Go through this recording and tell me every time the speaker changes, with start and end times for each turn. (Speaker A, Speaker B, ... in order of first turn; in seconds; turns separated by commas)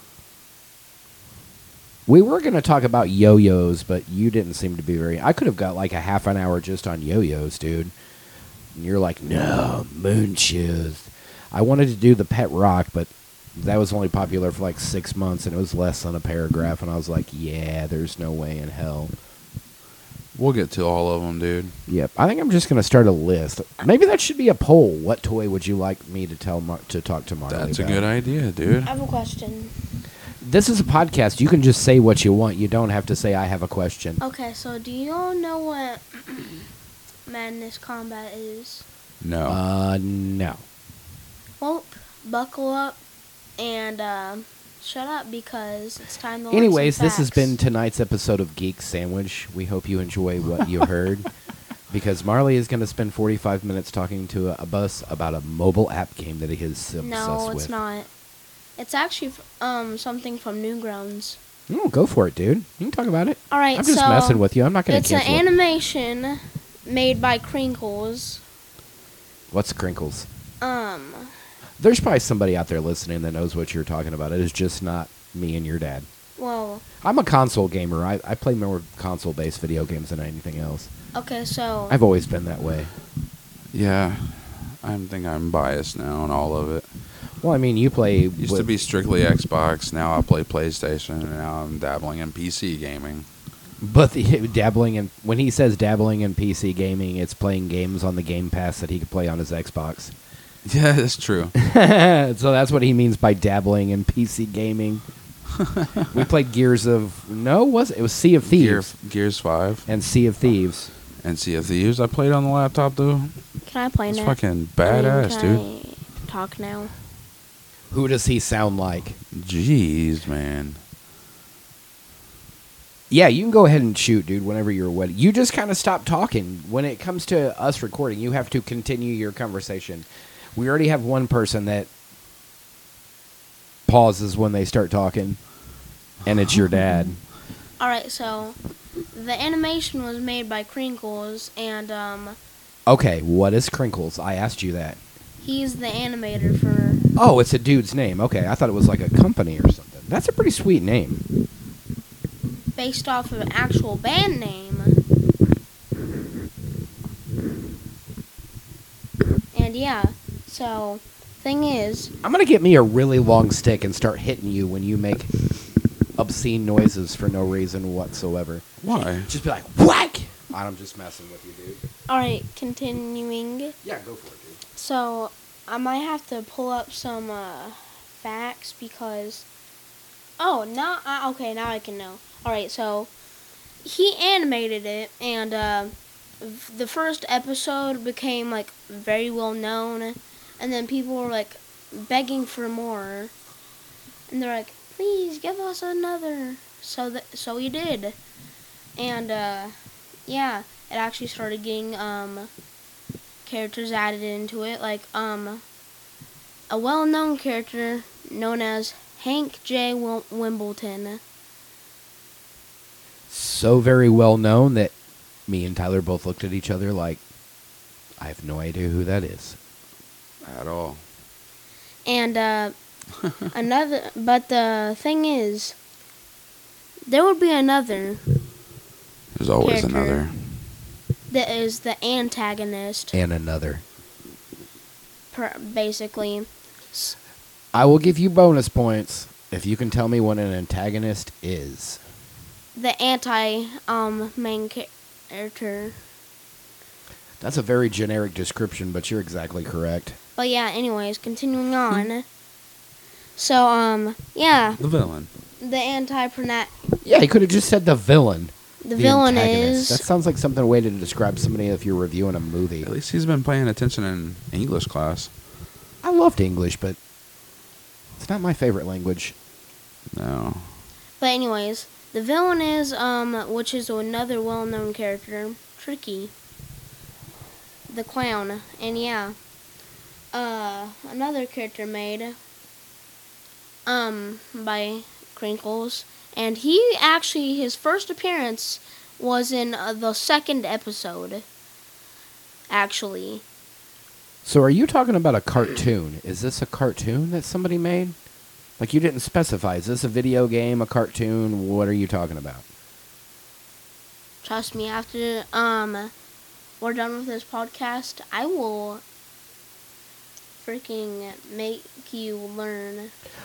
Speaker A: 2.1-7.9, Speaker A: 8.7-19.1, Speaker B: 20.3-21.7, Speaker A: 21.9-28.1, Speaker B: 27.5-28.9, Speaker C: 28.9-29.7, Speaker A: 30.4-34.2, Speaker C: 34.2-36.7, Speaker C: 37.3-38.9, Speaker B: 39.2-39.6, Speaker A: 39.5-40.6, Speaker C: 41.6-43.0, Speaker C: 43.6-47.5, Speaker A: 46.5-51.3, Speaker A: 51.9-57.7, Speaker C: 57.0-58.1, Speaker C: 58.8-61.4, Speaker A: 61.7-65.4, Speaker C: 63.5-68.4, Speaker A: 69.5-70.3, Speaker C: 70.6-71.3, Speaker A: 71.8-76.1, Speaker C: 76.4-76.8, Speaker A: 77.0-80.9, Speaker C: 81.2-82.0, Speaker A: 81.9-82.9, Speaker B: 83.7-86.9, Speaker A: 87.4-88.7, Speaker B: 88.4-93.3, Speaker A: 93.8-100.1, Speaker B: 100.7-101.5, Speaker A: 101.5-105.0, Speaker B: 105.6-106.2, Speaker A: 106.1-108.9, Speaker B: 108.4-109.9, Speaker A: 109.9-110.9, Speaker B: 111.2-113.3, Speaker C: 113.6-116.9, Speaker B: 114.1-115.7, Speaker A: 117.9-119.2, Speaker B: 119.3-120.8, Speaker A: 123.1-131.9, Speaker A: 133.9-135.4, Speaker A: 136.2-137.2, Speaker C: 137.8-138.6, Speaker C: 139.1-142.4, Speaker A: 142.9-145.0, Speaker C: 145.4-147.1, Speaker A: 147.2-151.2, Speaker C: 152.8-155.0, Speaker C: 159.5-162.2, Speaker A: 162.2-165.3, Speaker A: 166.2-171.8, Speaker B: 168.8-169.4, Speaker C: 172.1-173.8, Speaker A: 173.8-174.6, Speaker C: 174.8-179.5, Speaker C: 180.4-183.1, Speaker C: 183.8-193.3, Speaker C: 194.3-198.2, Speaker C: 199.0-199.7, Speaker C: 200.3-202.5, Speaker C: 203.4-205.6, Speaker C: 206.7-211.2, Speaker A: 213.3-214.9, Speaker A: 215.5-217.2, Speaker A: 218.2-219.6, Speaker B: 220.4-221.0, Speaker C: 222.1-222.7, Speaker C: 223.5-225.8, Speaker C: 227.1-228.4, Speaker B: 229.3-230.4, Speaker C: 229.6-230.3, Speaker C: 231.3-233.1, Speaker A: 233.1-233.8, Speaker C: 235.3-237.2, Speaker A: 237.7-242.0, Speaker C: 242.8-246.0, Speaker A: 247.4-250.2, Speaker C: 250.4-252.2, Speaker C: 253.4-254.8, Speaker B: 254.8-255.3, Speaker C: 255.6-256.9, Speaker A: 257.0-262.9, Speaker C: 258.8-260.1, Speaker B: 262.8-265.3, Speaker A: 266.0-267.0, Speaker A: 268.2-269.4, Speaker B: 270.1-270.8, Speaker C: 271.2-276.3, Speaker C: 277.9-279.4, Speaker C: 280.3-282.4, Speaker C: 283.9-291.4, Speaker C: 292.7-293.4, Speaker A: 294.4-298.1, Speaker A: 298.8-302.7, Speaker C: 304.4-306.1, Speaker C: 306.8-309.0, Speaker C: 310.6-313.1